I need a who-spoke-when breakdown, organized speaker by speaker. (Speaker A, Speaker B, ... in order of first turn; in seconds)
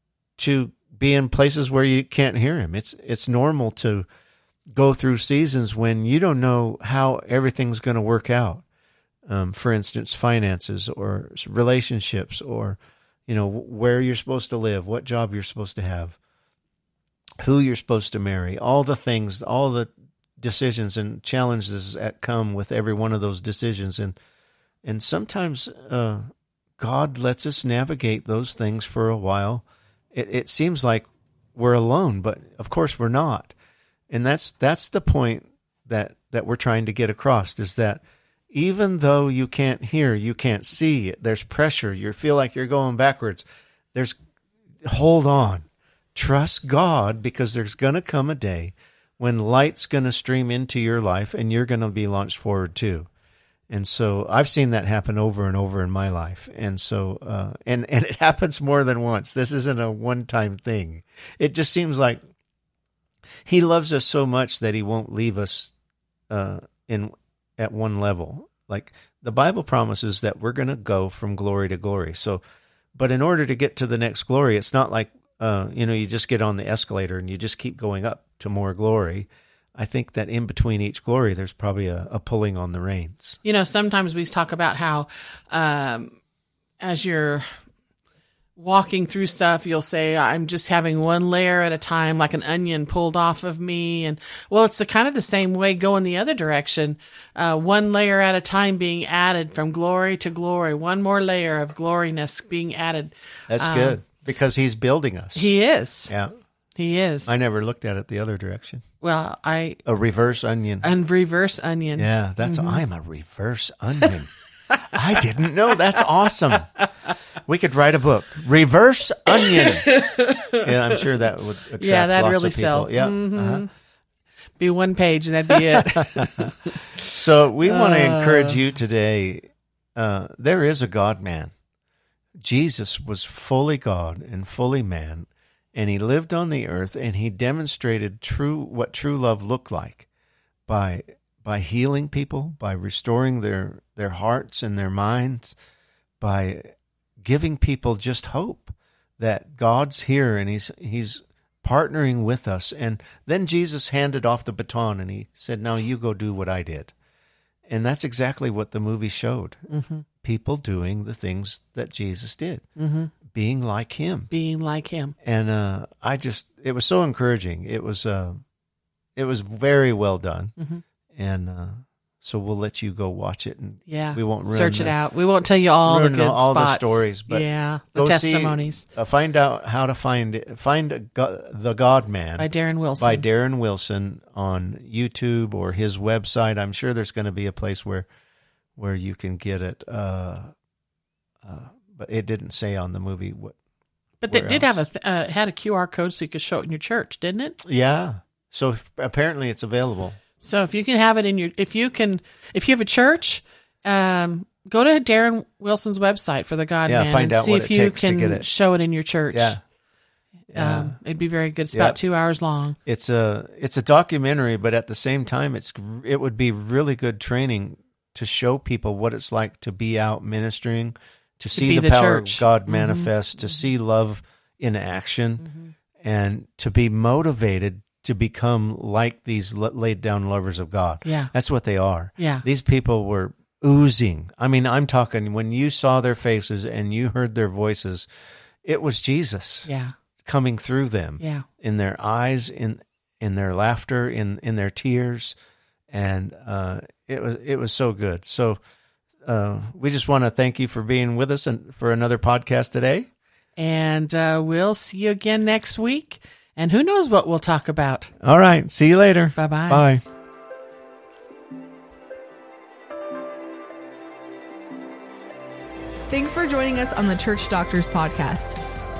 Speaker A: 0.4-4.0, 4.7-8.6, 9.3-16.2, 17.4-24.1, 24.8-33.5, 34.1-44.2, 44.8-53.1, 53.7-62.2, 63.5-65.7, 66.3-72.4, 72.9-83.4, 103.5-105.5, 107.3-108.8, 109.8-110.9, 112.0-114.3, 114.8-116.7, 117.4-123.6, 126.2-131.5, 132.4-140.1, 140.7-145.6, 146.2-156.9, 157.7-159.7, 160.2-162.6, 163.3-164.3, 165.2-168.4, 169.2-170.5, 171.1-174.9, 175.8-188.1, 188.8-190.5, 191.4-193.6, 194.3-194.8, 197.6-200.2, 206.9-208.4, 209.3-209.6, 210.5-211.0, 212.8-225.5, 226.0-238.1, 238.6-239.7, 240.2-245.3, 245.9-248.6, 249.2-253.1, 258.2-260.0
Speaker B: 83.4-86.2, 86.8-87.5, 88.5-104.0, 105.3-106.1, 106.8-107.3, 109.0-109.8, 110.8-112.8, 119.5-120.7, 121.8-123.7, 124.6-126.8, 127.6-128.6, 159.7-160.0, 162.8-163.1, 164.3-165.2, 170.6-170.8, 173.9-178.8, 182.4-183.2, 194.2-197.6, 200.4-209.6, 210.5-212.8, 221.5-223.1, 225.4-225.7, 231.0-231.3, 232.2-232.4, 239.7-239.9, 241.2-241.4, 253.6-258.1, 259.4-259.8
Speaker C: 266.1-268.6